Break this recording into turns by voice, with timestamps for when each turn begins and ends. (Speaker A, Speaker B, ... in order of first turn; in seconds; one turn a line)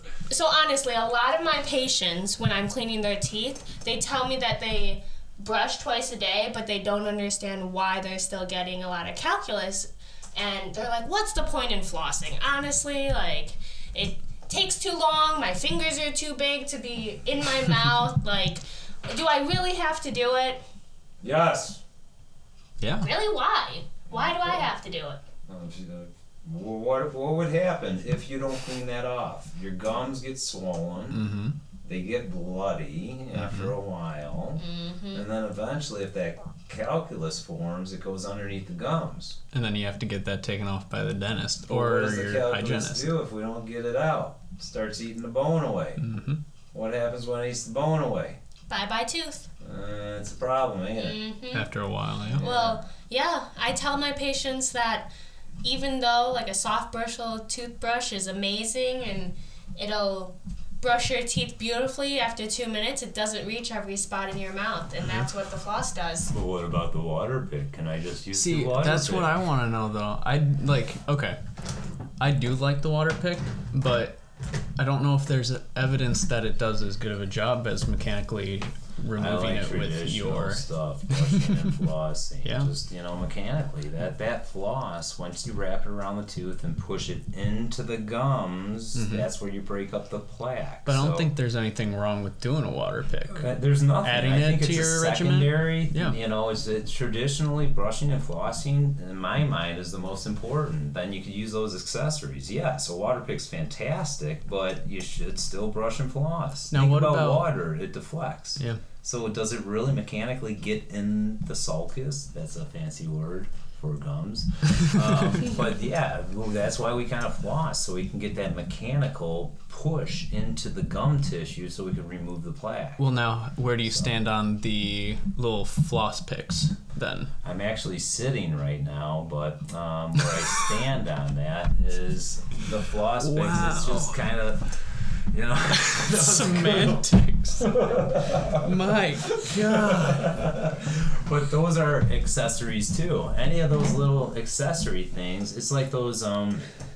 Speaker A: 0.3-20.6
Speaker B: 21.2-21.8
Speaker C: 22.8-23.1
Speaker A: 23.0-25.2
Speaker B: 24.1-24.7
Speaker B: 25.5-31.2
Speaker C: 31.1-31.6
Speaker B: 31.8-39.4
Speaker C: 33.3-33.7
Speaker A: 34.6-35.2
Speaker C: 39.5-43.1
Speaker B: 41.7-46.0
Speaker C: 46.0-46.4
Speaker B: 46.7-48.4
Speaker A: 48.7-49.5
Speaker B: 49.6-51.2
Speaker A: 50.9-51.7
Speaker C: 51.5-52.4
Speaker B: 52.3-52.9
Speaker A: 52.4-55.1
Speaker A: 55.6-66.3
Speaker C: 65.0-65.2
Speaker B: 66.3-69.4
Speaker C: 68.3-71.4
Speaker C: 72.2-74.2
Speaker C: 74.8-81.8
Speaker B: 79.2-91.3
Speaker C: 82.4-82.7
Speaker C: 88.9-89.3
Speaker C: 90.8-93.5
Speaker B: 93.4-123.1
Speaker C: 94.0-96.2
Speaker C: 106.7-107.5
Speaker C: 123.0-127.3
Speaker B: 123.8-124.2
Speaker B: 127.4-134.7
Speaker C: 133.2-134.3
Speaker B: 135.3-137.0
Speaker C: 135.9-140.4
Speaker B: 137.7-138.4
Speaker B: 139.4-146.6